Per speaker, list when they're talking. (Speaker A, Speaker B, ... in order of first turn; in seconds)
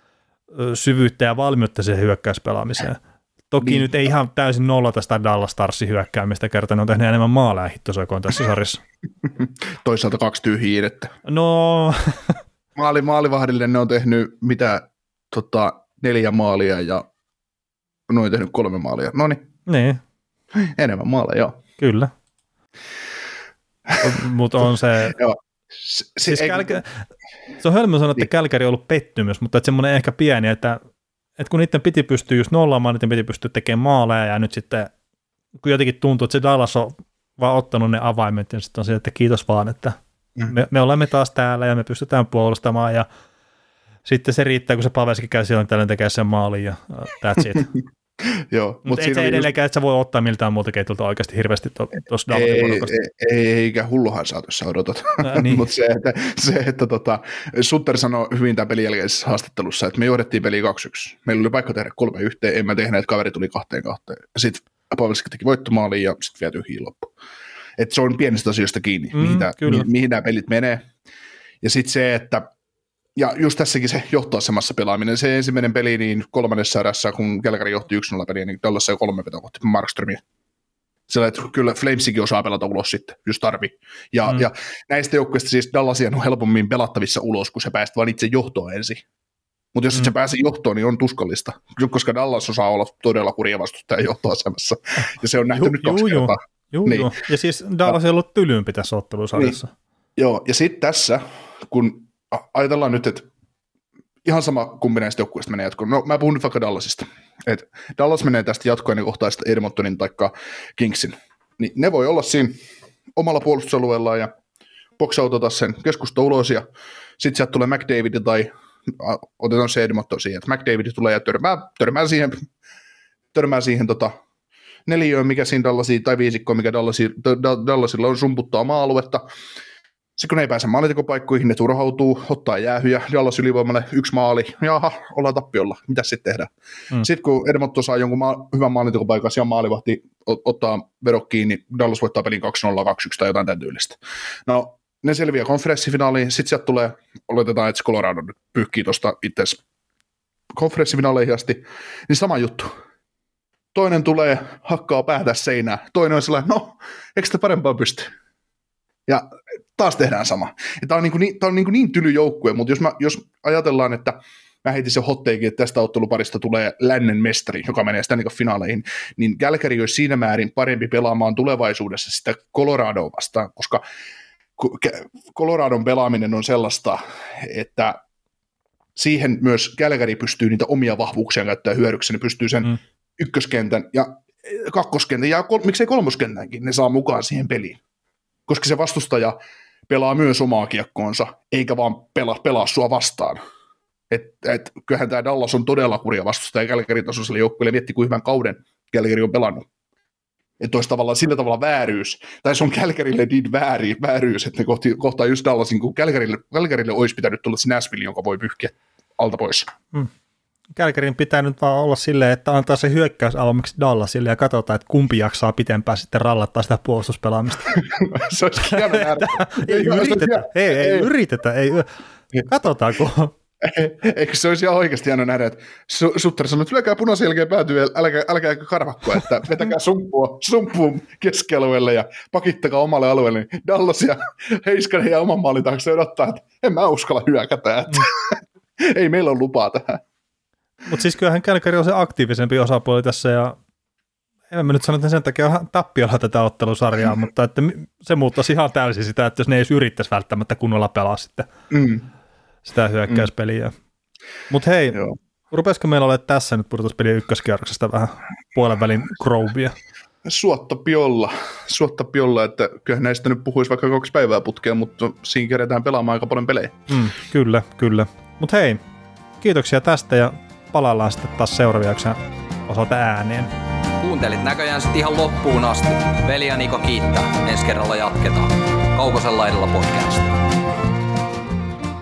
Speaker A: 0.5-3.0, 3.5-8.8, 11.2-12.3, 19.7-20.0, 21.8-22.1, 24.0-25.2, 26.2-27.0, 27.6-30.8, 31.4-34.9, 35.6-40.0, 40.5-43.0, 44.0-47.7, 48.8-52.9, 55.2-55.6, 69.1-69.8, 95.5-99.7, 210.7-217.8, 218.7-221.9, 222.4-223.3, 240.8-243.6, 244.5-251.5, 252.7-253.7, 254.5-259.7, 266.9-268.8, 269.4-273.5
Speaker B: 3.6-3.9, 9.4-11.1, 12.7-17.0, 18.1-19.4, 20.5-21.6, 25.1-26.8, 47.5-49.5, 52.3-67.1, 67.8-70.9, 71.6-72.4, 73.2-80.2, 81.1-89.0, 89.7-97.2, 100.2-103.3, 104.2-112.6, 113.2-114.3, 115.0-116.7, 117.2-122.4, 123.3-124.1, 124.8-129.2, 130.2-149.6, 150.5-152.7, 153.7-158.1, 159.1-173.8, 174.6-178.0, 178.9-187.8, 188.5-189.3, 189.9-193.4, 194.1-199.7, 200.6-209.7, 217.7-221.1, 223.6-240.0, 251.7-252.1, 260.2-266.9
Speaker C: 274.0-280.4